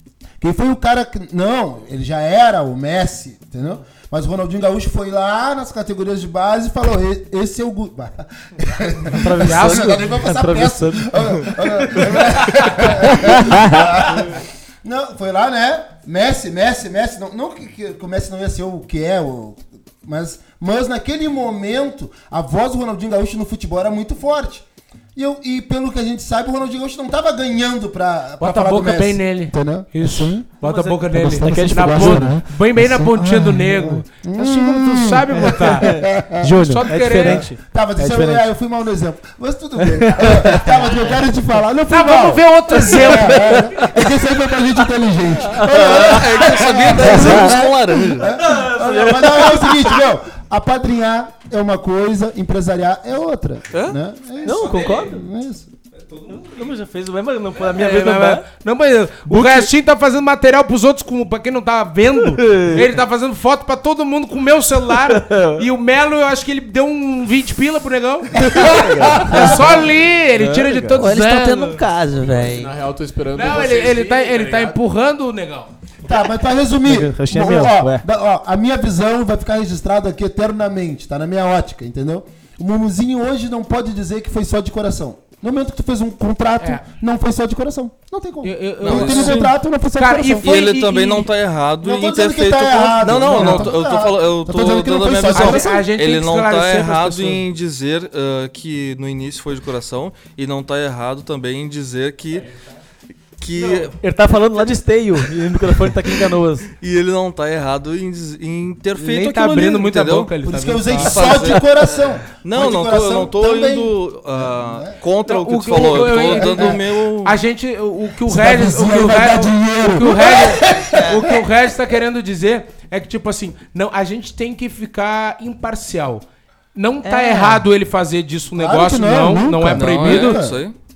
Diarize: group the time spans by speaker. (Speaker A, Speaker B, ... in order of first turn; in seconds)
Speaker A: 0.4-30.5, 31.1-55.7, 68.4-69.8, 76.0-90.5, 91.8-95.8, 110.4-115.0, 115.9-116.8, 118.3-121.5, 128.5-130.5
Speaker B: 9.0-13.5, 30.6-32.4, 35.3-38.5, 39.8-41.0, 43.0-44.0, 45.4-46.2, 47.1-47.5, 48.1-50.0, 54.4-55.2, 56.3-58.4, 59.3-59.7, 62.2-62.9, 65.0-65.6, 68.4-71.0, 76.8-78.0, 103.9-106.7
Speaker C: 9.3-10.1, 28.4-36.0, 36.5-37.4, 41.9-43.9, 54.5-55.1, 56.0-56.7, 57.6-71.8, 73.3-75.7, 88.4-89.4, 90.0-91.3, 95.3-97.4, 109.0-111.5, 115.2-126.2, 126.7-130.4
Speaker D: 45.7-48.2, 88.8-89.5, 90.4-102.5, 103.4-104.0, 106.8-110.3, 111.0-117.4, 129.7-130.7
Speaker E: 71.0-72.8, 127.0-127.6
Speaker F: 72.2-74.8